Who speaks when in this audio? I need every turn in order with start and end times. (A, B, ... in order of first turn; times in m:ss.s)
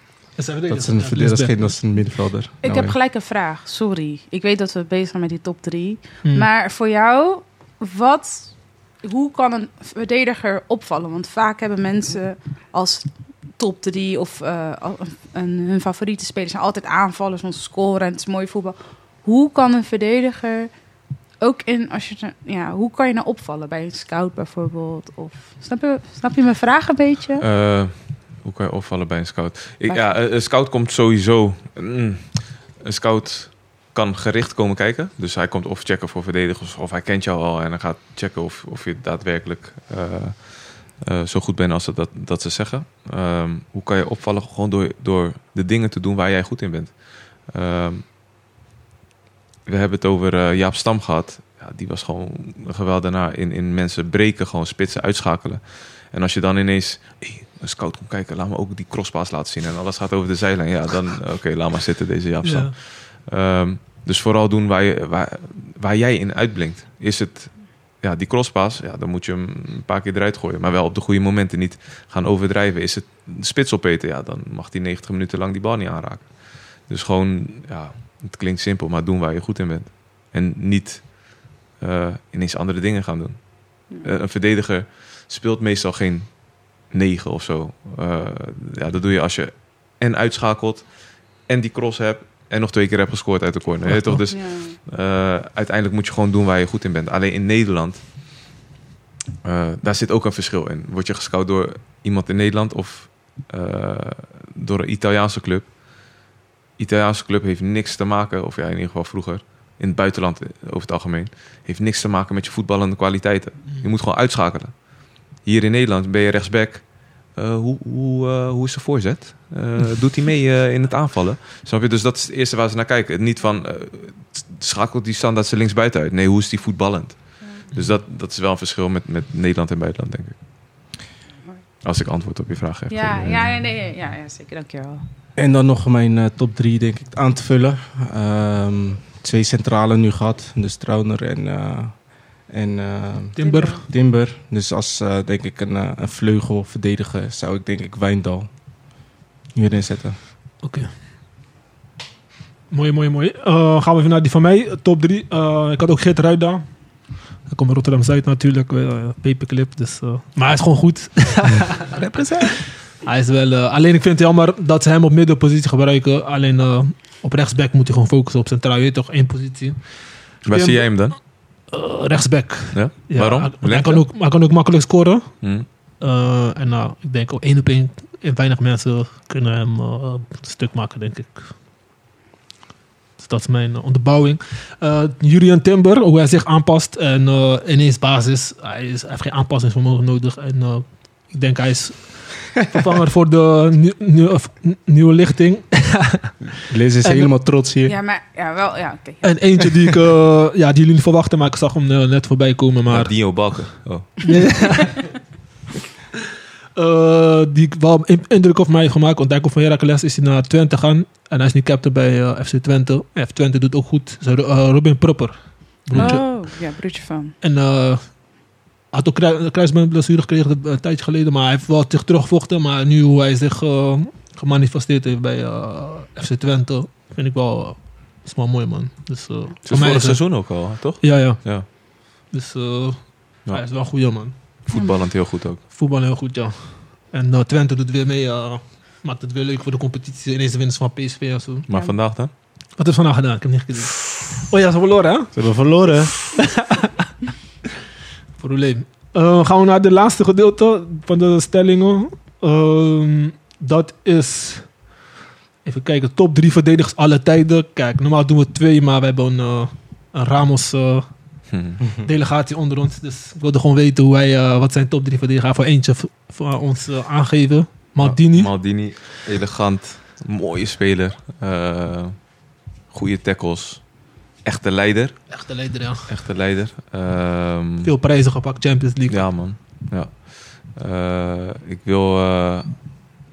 0:00.4-0:01.8 A
0:00.7-0:03.0 B
0:02.6-0:20.7 C
0:21.4-0:27.4 C
0:27.4-0:48.1 D
0:29.9-0:30.2 C
0:49.7-1:38.1 D
1:02.4-1:02.7 A
1:33.9-1:34.2 A
1:34.3-1:34.8 C
1:39.4-1:45.8 D
1:46.8-2:10.4 D
2:11.8-2:13.5 D
2:12.9-2:15.0 C
2:15.4-2:28.5 B
2:23.4-2:23.8 A
2:23.4-2:23.8 C
2:29.5-2:30.2 B
2:30.6-2:30.9 A
2:32.7-2:36.9 A
2:37.4-3:01.5 A
2:50.4-2:51.2 D
2:52.7-2:54.1 D
3:03.2-3:16.4 A
3:16.7-3:18.0 B
3:17.0-3:17.3 A
3:17.8-3:19.5 C
3:19.2-3:23.6 A
3:22.9-3:24.4 D
3:24.3-3:25.0 A
3:26.8-3:36.3 A
3:35.9-3:37.4 C
3:37.4-3:38.3 A
3:38.9-3:54.7 A
3:49.6-3:51.7 D
3:54.7-3:55.6 D
3:54.7-3:55.0 C
3:55.6-4:01.7 A
4:01.7-4:02.3 D
4:01.7-4:02.0 C
4:02.8-4:05.5 A
4:05.3-4:06.2 B
4:06.4-4:07.1 A
4:08.4-4:14.9 A
4:15.6-4:21.1 A
4:21.5-4:21.8 D
4:22.0-4:28.5 A
4:28.0-4:32.3 D
4:32.9-4:35.4 D
4:35.3-4:36.1 A
4:36.1-4:37.9 D
4:37.8-4:39.3 A
4:39.1-4:42.8 D